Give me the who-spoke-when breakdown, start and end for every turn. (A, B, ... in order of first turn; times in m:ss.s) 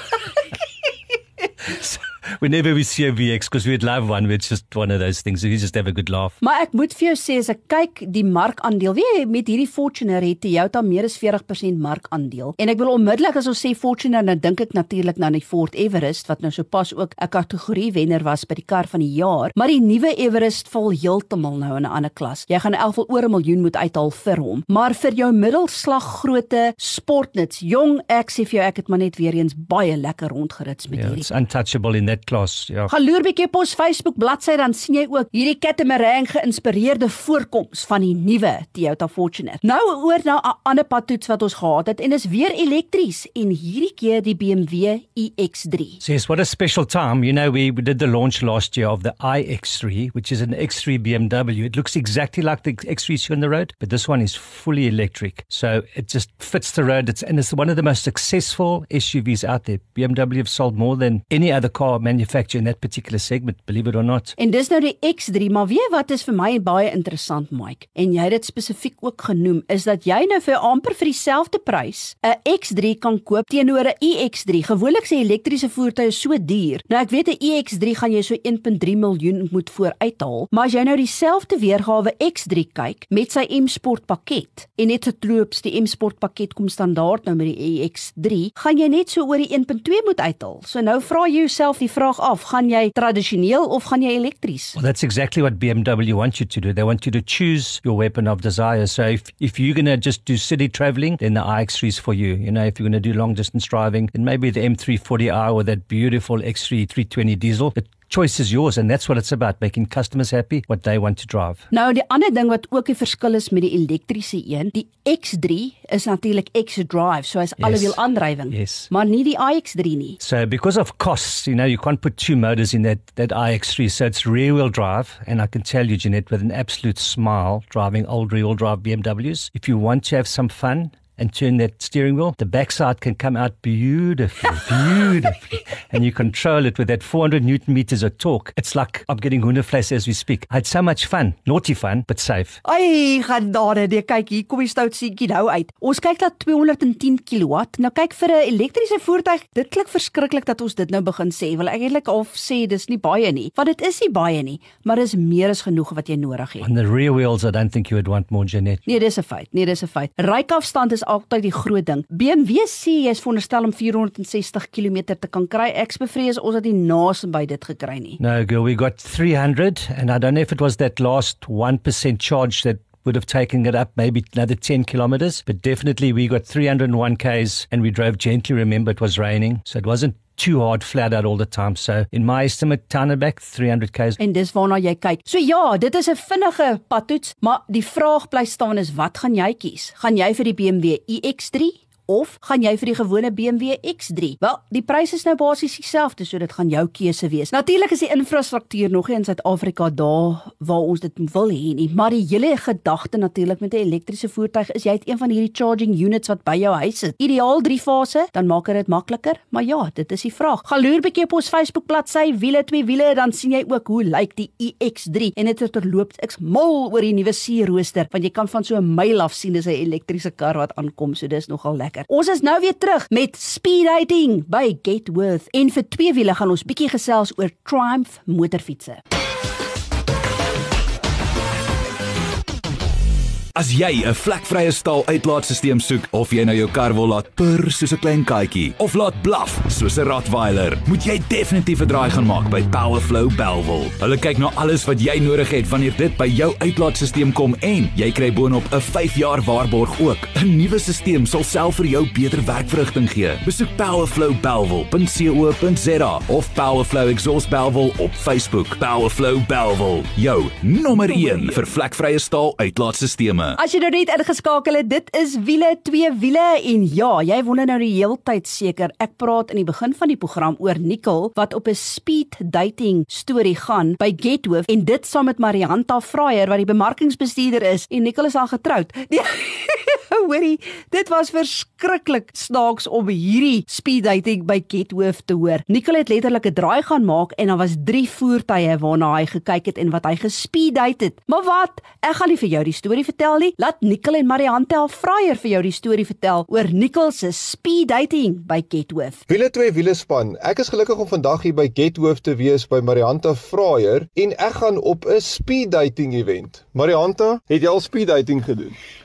0:01.6-0:06.4 A
0:06.4-0:31.3 B
0:31.0-0:32.9 A
0:32.9-0:46.0 B
0:46.0-1:04.3 A
1:04.4-1:34.8 B
1:34.8-1:51.6 A
1:51.7-2:00.2 B
1:57.6-1:58.0 A
1:58.5-1:58.9 A
2:00.2-2:22.6 A
2:22.6-2:36.7 B
2:36.6-2:38.9 A
2:38.9-2:48.2 B
2:48.2-3:04.2 A
3:04.2-3:49.0 B
3:53.5-4:23.6 C
4:23.6-4:59.2 B
4:59.3-5:08.8 D